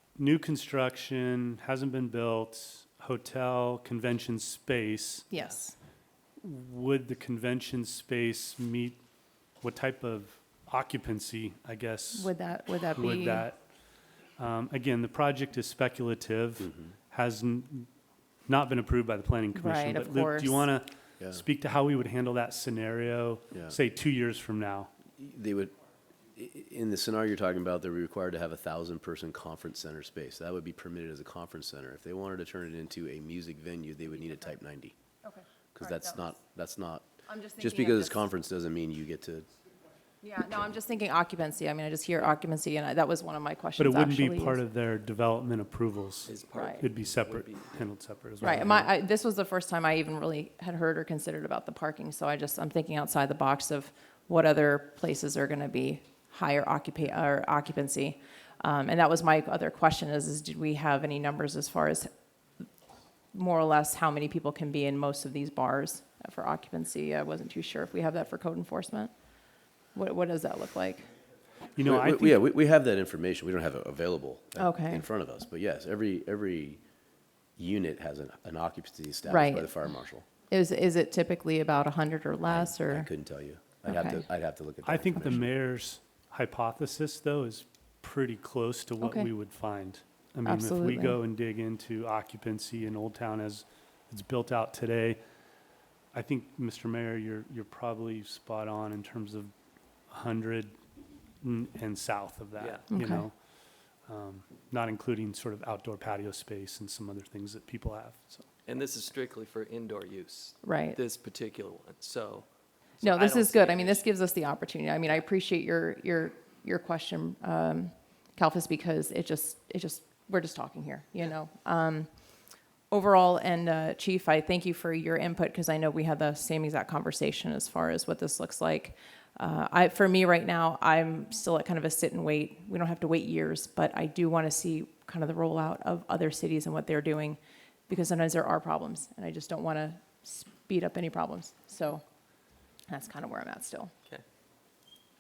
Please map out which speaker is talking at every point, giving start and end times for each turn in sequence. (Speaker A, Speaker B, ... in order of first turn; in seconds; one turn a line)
Speaker A: 0.2-5.3
Speaker B: 5.3-5.8
Speaker A: 6.4-9.0
Speaker A: 9.6-13.6
Speaker B: 12.2-13.5
Speaker A: 14.4-17.9
Speaker C: 16.6-16.9
Speaker A: 18.5-24.9
Speaker B: 19.5-20.7
Speaker C: 25.2-25.7
Speaker C: 26.3-34.9
Speaker B: 35.2-36.4
Speaker C: 35.8-39.5
Speaker B: 37.2-38.2
Speaker B: 40.2-44.6
Speaker A: 43.8-48.9
Speaker D: 46.2-47.7
Speaker B: 46.5-46.8
Speaker B: 48.4-62.1
Speaker B: 63.3-69.1
Speaker B: 69.9-71.1
Speaker A: 71.8-72.4
Speaker C: 71.8-76.8
Speaker B: 74.6-75.1
Speaker C: 77.6-80.3
Speaker B: 79.2-79.8
Speaker B: 80.5-83.1
Speaker C: 82.5-85.5
Speaker B: 83.8-84.2
Speaker A: 84.8-95.2
Speaker B: 89.0-89.3
Speaker B: 90.4-91.2
Speaker A: 96.1-99.5
Speaker A: 100.1-100.8
Speaker A: 101.4-103.3
Speaker D: 102.6-102.8
Speaker B: 102.9-103.2
Speaker A: 104.1-108.5
Speaker D: 108.7-112.5
Speaker B: 110.6-111.0
Speaker D: 113.0-114.1
Speaker B: 113.0-122.1
Speaker B: 122.9-142.0
Speaker B: 142.9-143.9